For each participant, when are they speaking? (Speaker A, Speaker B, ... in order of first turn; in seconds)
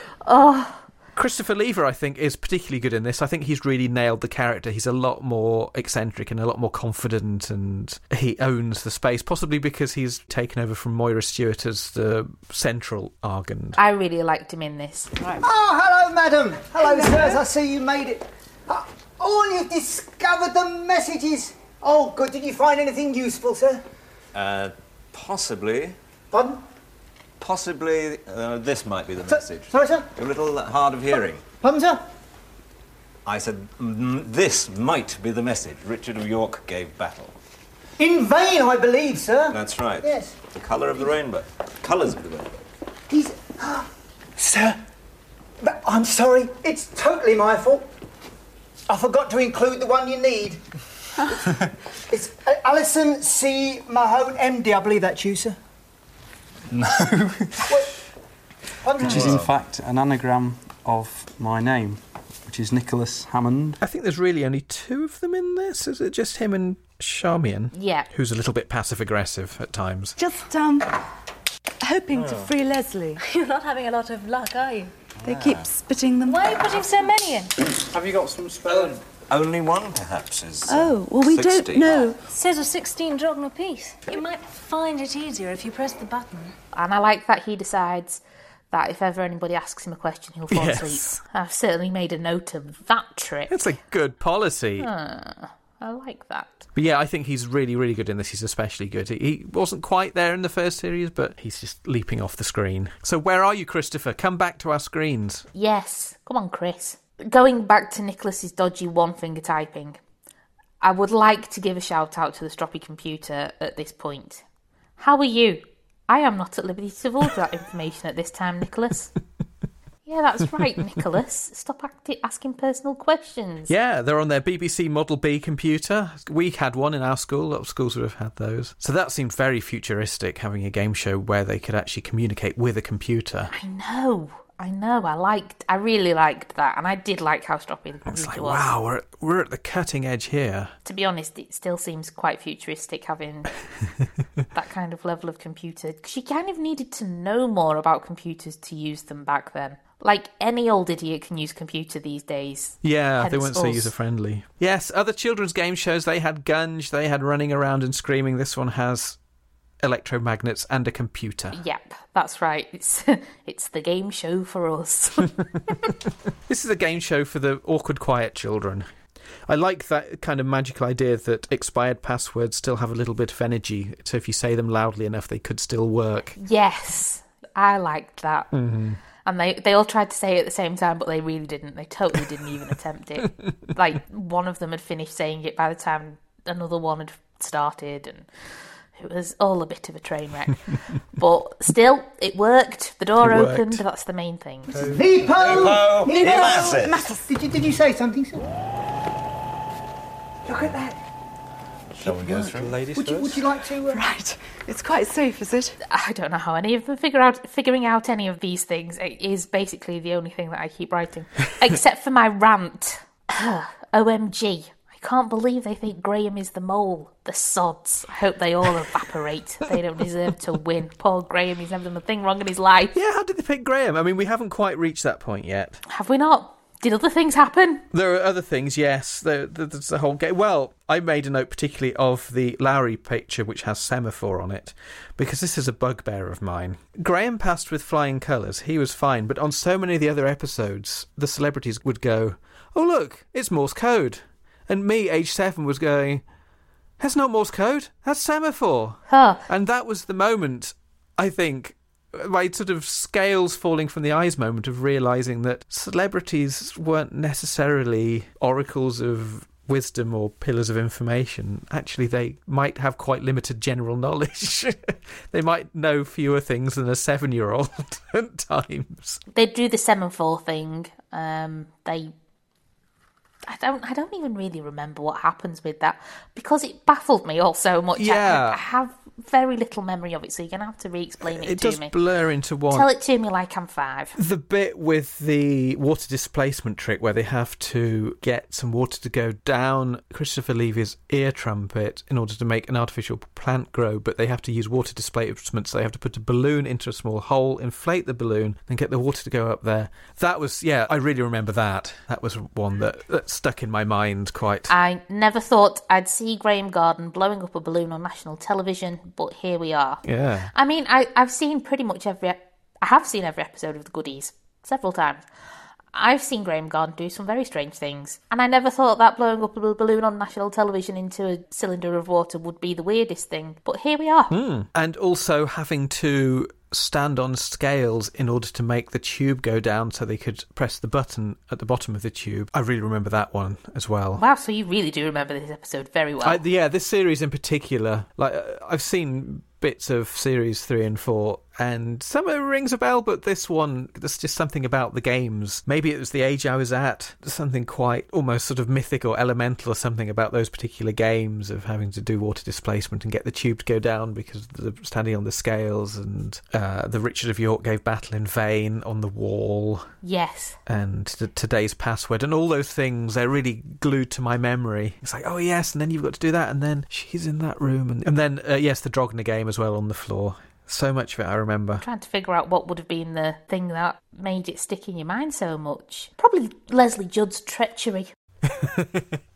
Speaker A: 0.2-0.8, 13.8-15.2, 67.7-68.1, 86.7-93.5, 94.8-96.7, 105.5-110.0, 110.8-114.4, 115.0-119.1, 120.1-123.7, 133.5-138.7, 140.8-143.6, 144.5-153.9, 161.5-165.9, 176.4-178.5, 179.2-188.3, 188.9-194.7, 205.9-222.9, 225.9-227.8, 249.1-249.4, 269.3-272.1, 273.5-281.9, 282.7-284.1, 304.7-315.2, 315.9-324.3, 334.2-336.4, 360.0-360.6, 371.8-378.1
Speaker B: 1.2-13.8, 63.8-70.2, 90.5-91.1, 93.5-94.9, 96.8-105.5, 123.7-133.5, 138.1-140.7, 152.8-159.2, 159.8-161.6, 166.5-168.9, 169.5-176.4, 178.5-179.0, 193.2-193.8, 222.9-225.8, 227.9-246.2, 247.0-269.2, 278.0-278.6, 281.3-282.9, 284.2-304.7, 310.1-310.5, 324.3-334.2, 336.2-359.9, 360.7-371.8, 378.5-379.2
Speaker C: 15.4-23.8, 26.3-26.6, 29.3-30.1, 31.6-32.0, 38.0-40.4, 43.1-44.8, 45.6-47.9, 48.9-50.6, 52.1-55.6, 57.7-58.0, 58.8-59.4, 194.8-198.4, 200.5-200.9, 202.0-204.0
Speaker D: 16.8-17.4, 70.2-70.9, 71.8-73.2, 75.2-76.8, 80.7-82.2, 195.6-197.2, 202.3-202.5, 203.9-205.8
Speaker E: 24.3-26.0, 27.4-31.4, 33.2-37.4, 39.5-42.5, 56.7-57.3, 59.0-59.5, 72.1-72.5, 75.2-75.7, 78.7-82.1, 195.3-197.1, 202.0-203.4
Speaker F: 59.0-63.8, 77.8-79.0
Speaker G: 73.2-74.9, 76.2-77.6, 82.3-86.5